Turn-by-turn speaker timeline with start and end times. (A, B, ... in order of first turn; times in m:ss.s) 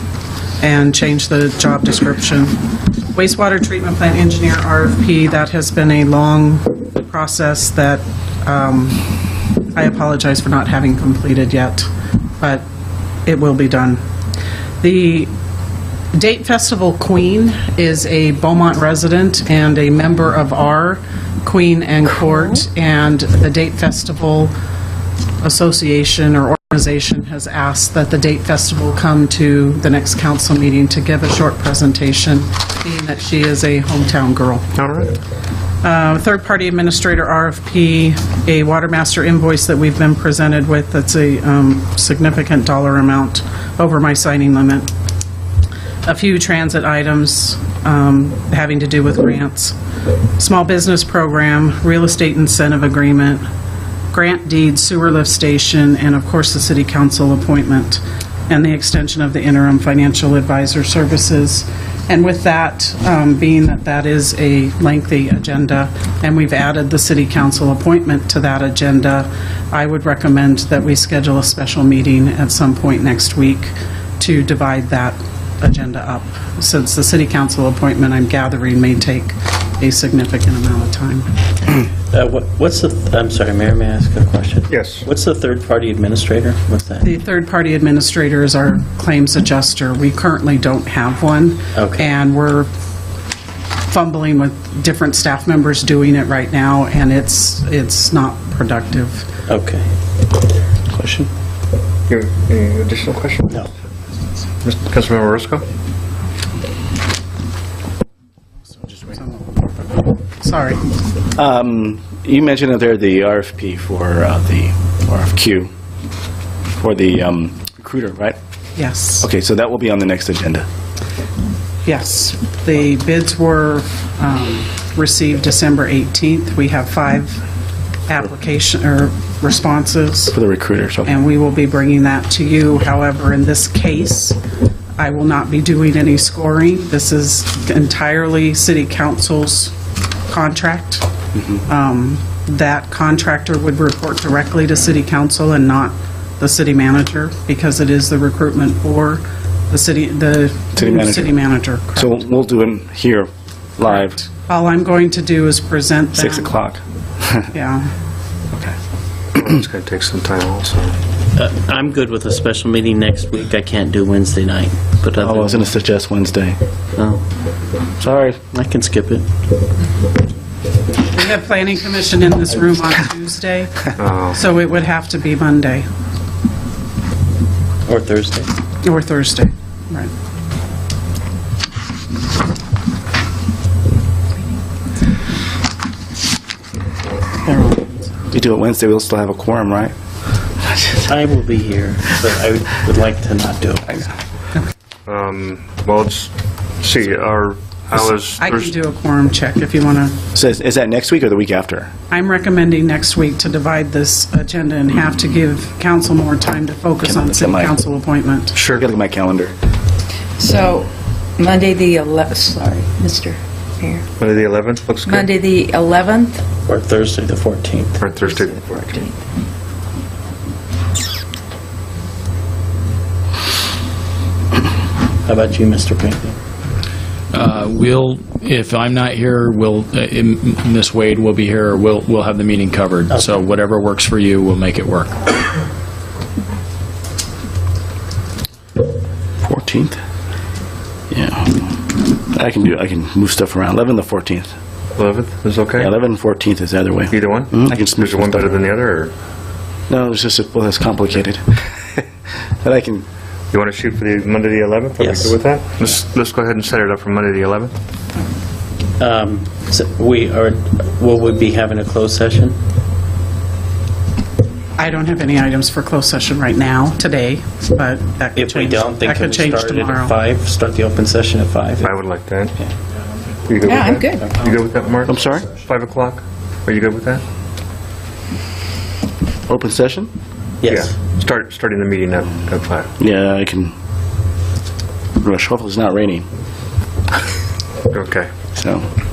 0:00.6-0:02.6 A
0:03.1-0:09.1 A
0:09.7-0:12.6 A
0:13.2-0:14.0 A
0:14.8-0:15.3 A
0:16.1-0:24.5 A
0:25.4-0:34.7 A
0:34.8-0:35.1 B
0:35.8-0:44.9 A
0:46.0-0:49.8 A
0:50.4-0:53.4 A
0:54.1-1:21.3 A
1:22.1-1:27.0 C
1:24.7-1:25.0 B
1:27.0-1:32.7 A
1:31.7-1:32.1 C
1:33.8-1:39.3 A
1:39.5-1:39.9 C
1:40.9-1:41.3 C
1:42.1-1:43.7 B
1:44.6-1:45.6 B
1:48.8-1:50.8 A
1:51.3-1:55.7 D
1:56.8-1:58.4 D
1:58.8-1:59.3 A
1:59.2-2:00.6 D
2:01.8-2:07.4 A
2:08.1-2:10.4 A
2:10.3-2:11.1 D
2:11.0-2:14.4 A
2:15.0-2:19.7 A
2:20.3-2:32.3 A
2:30.8-2:31.4 D
2:32.0-2:34.2 D
2:33.8-2:36.5 A
2:36.1-2:37.5 D
2:37.5-2:37.9 A
2:39.3-2:41.0 B
2:41.4-2:45.7 C
2:45.2-2:46.6 D
2:47.0-2:47.2 C
2:48.0-2:48.4 D
2:48.4-2:49.3 C
2:51.1-2:55.9 A
2:54.0-2:54.4 B
2:57.8-2:58.5 C
2:58.8-3:00.1 A
3:07.5-3:07.8 C
3:08.3-3:09.9 D
3:10.6-3:11.0 D
3:11.0-3:14.0 C
3:15.0-3:18.7 B
3:18.2-3:20.2 A
3:20.3-3:21.9 D
3:22.1-3:28.6 A
3:27.0-3:27.8 D
3:28.5-3:28.9 B
3:28.7-3:29.5 D
3:30.4-3:34.0 E
3:34.2-3:35.3 B
3:35.0-3:36.4 E
3:36.7-3:38.0 C
3:38.0-3:39.0 B
3:38.2-3:39.1 E
3:45.2-3:46.4 C
3:47.3-3:55.3 F
3:53.1-3:53.3 C
3:59.4-4:00.0 D
4:01.1-4:04.5 D
4:05.0-4:05.9 B
4:05.8-4:08.6 D
4:07.1-4:09.1 B
4:09.9-4:12.0 D
4:12.6-4:13.0 D
4:13.5-4:17.7 B
4:15.0-4:15.4 C
4:19.0-4:22.6 C
4:24.8-4:30.2 A
4:28.4-4:31.9 C
4:31.8-4:32.6 B
4:33.4-4:37.2 B
4:33.6-4:34.2 E
4:35.0-4:35.5 D
4:39.5-4:40.1 D
4:40.6-4:41.0 C
4:40.6-4:42.9 B
4:43.0-4:43.7 D
4:45.2-4:46.2 D
4:47.9-4:48.3 B
4:48.5-4:48.9 D